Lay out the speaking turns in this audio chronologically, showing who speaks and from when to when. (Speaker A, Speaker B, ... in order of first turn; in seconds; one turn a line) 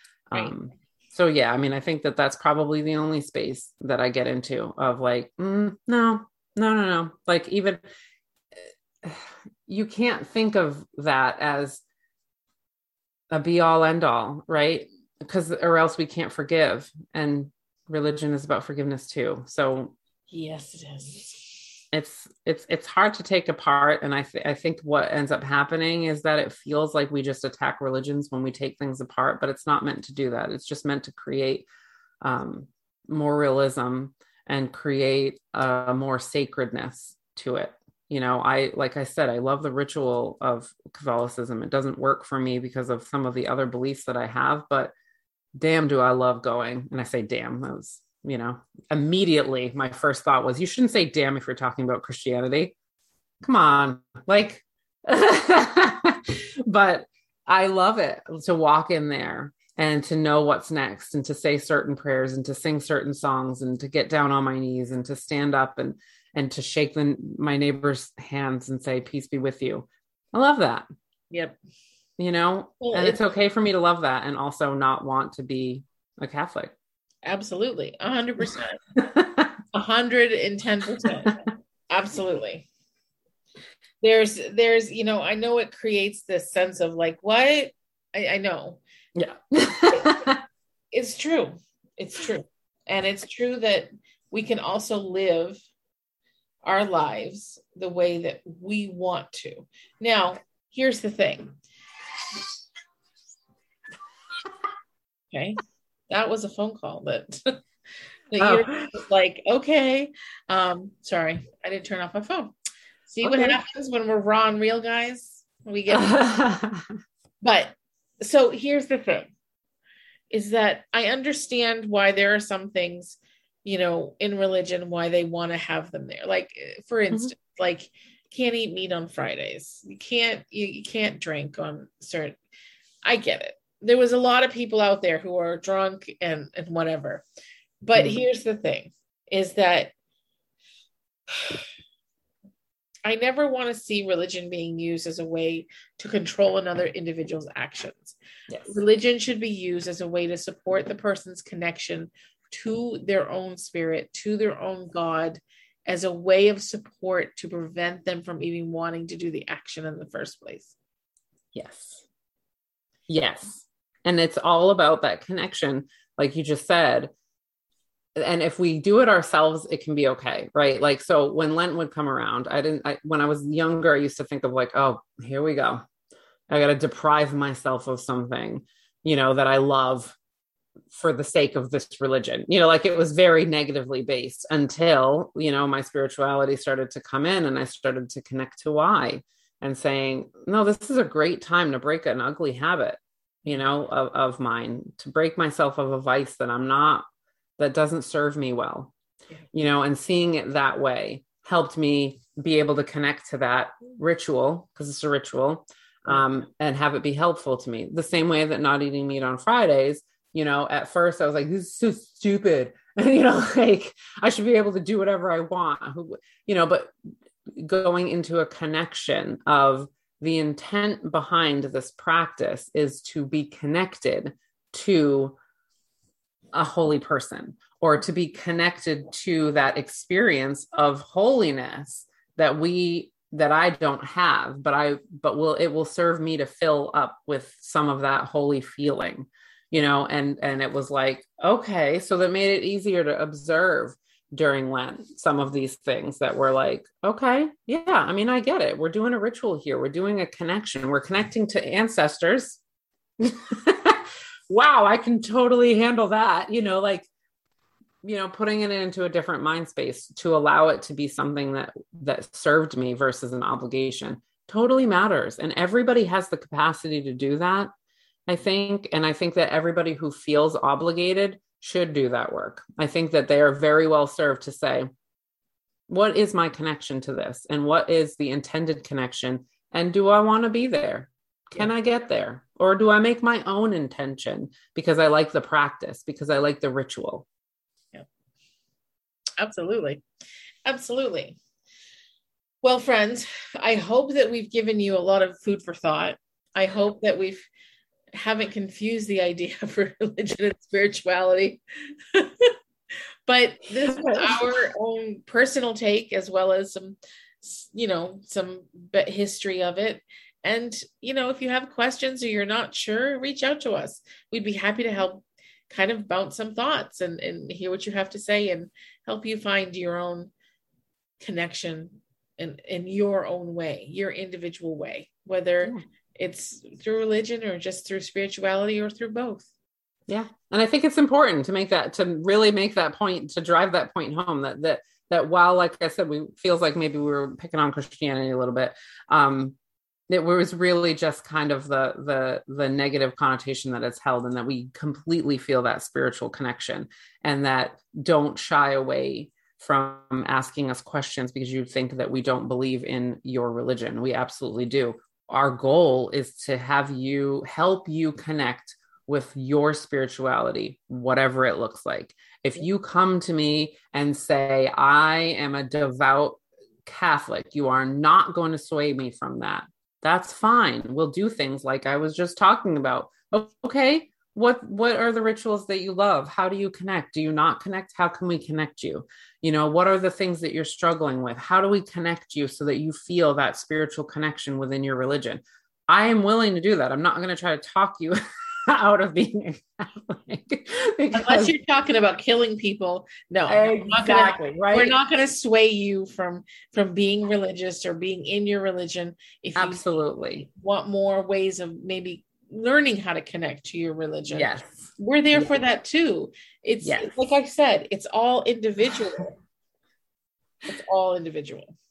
Speaker A: 0.3-7.8
Speaker A: 8.5-11.8
Speaker A: 13.3-19.9
Speaker B: 20.3-21.6
Speaker A: 21.9-31.6
Speaker A: 32.2-44.9
Speaker A: 45.6-52.7
Speaker A: 53.4-70.8
Speaker B: 71.3-71.5
Speaker A: 72.2-76.7
Speaker B: 72.8-73.2
Speaker B: 77.2-78.8
Speaker A: 79.0-79.5
Speaker B: 79.7-82.7
Speaker B: 84.0-88.8
Speaker A: 89.1-90.4
Speaker B: 90.9-95.6
Speaker B: 96.6-101.6
Speaker B: 105.3-107.4
Speaker B: 108.3-112.5
Speaker A: 108.4-109.0
Speaker B: 113.1-116.2
Speaker A: 113.2-113.6
Speaker A: 115.9-116.9
Speaker B: 117.4-119.3
Speaker B: 120.3-132.4
Speaker B: 133.0-137.2
Speaker B: 137.8-139.9
Speaker B: 143.1-148.2
Speaker A: 148.5-148.8
Speaker B: 148.7-160.7
Speaker A: 161.5-162.0
Speaker A: 163.1-167.1
Speaker A: 168.2-175.8
Speaker A: 176.5-180.2
Speaker A: 180.9-197.1
Speaker A: 197.6-198.9
Speaker A: 199.5-216.9
Speaker A: 217.5-225.3
Speaker A: 226.5-252.6
Speaker A: 253.2-257.1
Speaker A: 258.0-267.7
Speaker A: 268.3-274.9
Speaker A: 275.9-287.2
Speaker B: 289.4-290.0
Speaker B: 290.6-291.4
Speaker B: 292.6-297.5
Speaker B: 298.1-301.6
Speaker B: 302.1-302.5
Speaker B: 303.3-320.3
Speaker A: 303.9-304.4
Speaker B: 321.2-329.5
Speaker A: 330.1-339.6
Speaker A: 340.1-391.5
Speaker B: 391.1-399.8
Speaker A: 393.5-394.9
Speaker A: 399.6-400.5
Speaker B: 400.4-409.4
Speaker A: 404.3-405.5
Speaker A: 406.8-407.2
Speaker B: 410.7-411.7